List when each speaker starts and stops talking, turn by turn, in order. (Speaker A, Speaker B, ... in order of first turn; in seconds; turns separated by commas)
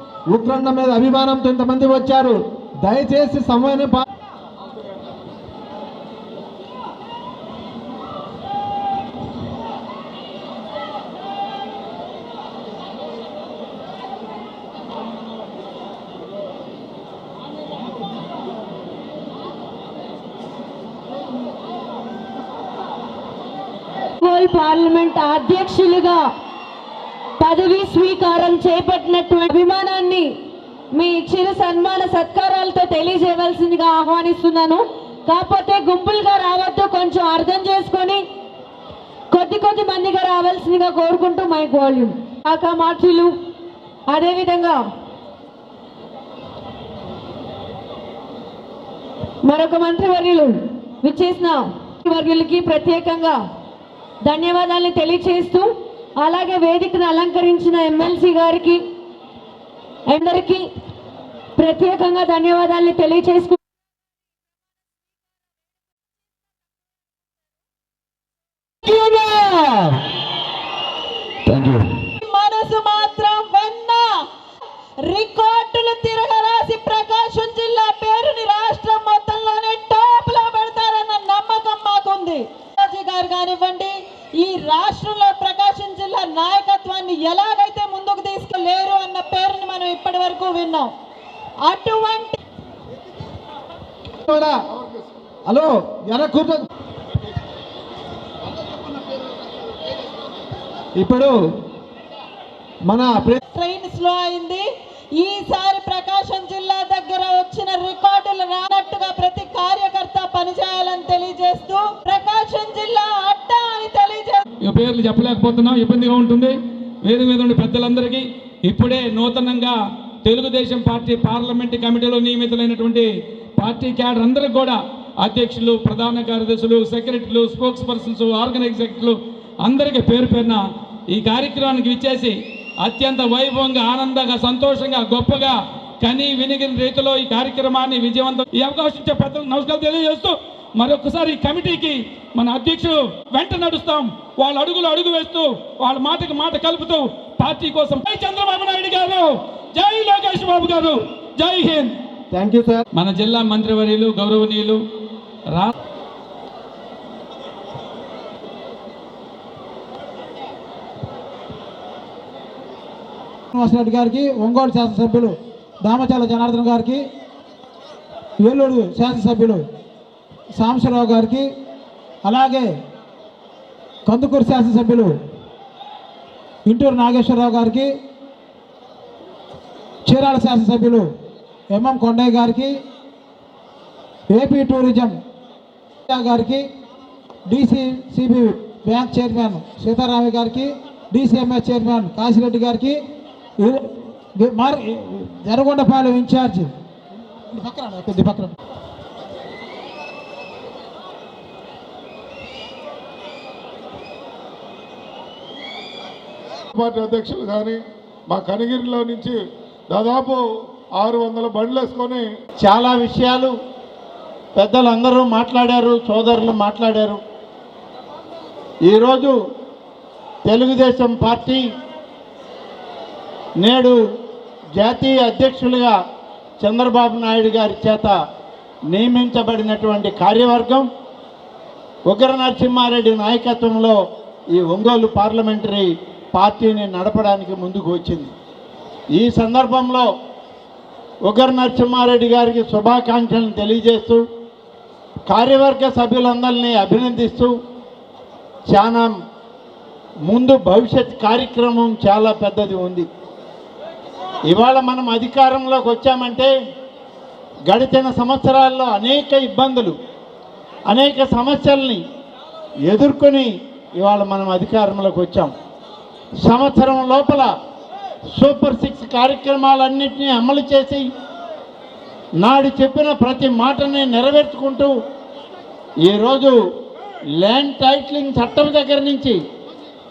Speaker A: 0.3-4.0, Speaker B: 24.2-26.3, Speaker B: 27.4-30.3, Speaker B: 30.9-38.2, Speaker B: 39.3-43.3, Speaker B: 44.1-44.8, Speaker B: 49.4-53.4, Speaker B: 54.2-58.8, Speaker B: 60.1-60.6, Speaker B: 61.6-63.6, Speaker A: 68.8-69.9, Speaker A: 71.5-71.8, Speaker C: 72.2-74.2, Speaker C: 75.0-90.9, Speaker C: 91.6-92.4, Speaker A: 94.2-94.6, Speaker D: 94.7-95.0, Speaker A: 95.5-96.6, Speaker A: 101.0-101.3, Speaker A: 102.9-103.4, Speaker C: 103.5-114.4, Speaker E: 114.6-151.9, Speaker A: 152.3-152.8, Speaker E: 152.9-154.8, Speaker F: 163.5-167.1, Speaker F: 168.4-169.7, Speaker F: 170.5-171.5, Speaker F: 172.2-172.8, Speaker F: 174.1-175.2, Speaker F: 176.7-177.9, Speaker F: 180.1-181.1, Speaker F: 181.7-182.8, Speaker F: 184.3-185.2, Speaker F: 186.1-186.7, Speaker F: 187.5-193.0, Speaker F: 193.6-196.7, Speaker F: 197.5-198.5, Speaker D: 206.7-209.4, Speaker D: 209.9-210.4, Speaker D: 211.0-212.2, Speaker G: 212.6-213.5, Speaker G: 214.6-217.2, Speaker G: 218.8-219.3, Speaker G: 220.4-221.6, Speaker G: 223.6-224.0, Speaker G: 224.7-226.0, Speaker G: 226.6-228.1, Speaker G: 228.9-230.9, Speaker G: 232.1-234.0, Speaker G: 234.5-238.3, Speaker G: 239.1-240.1, Speaker G: 241.2-244.2, Speaker G: 245.3-247.5, Speaker G: 248.7-249.1, Speaker G: 250.2-253.1, Speaker G: 254.5-256.5, Speaker G: 257.7-259.9, Speaker G: 260.9-262.0, Speaker G: 262.9-265.5, Speaker G: 266.4-267.5, Speaker G: 268.4-271.1, Speaker G: 272.4-274.9, Speaker G: 276.1-276.6, Speaker G: 277.4-279.4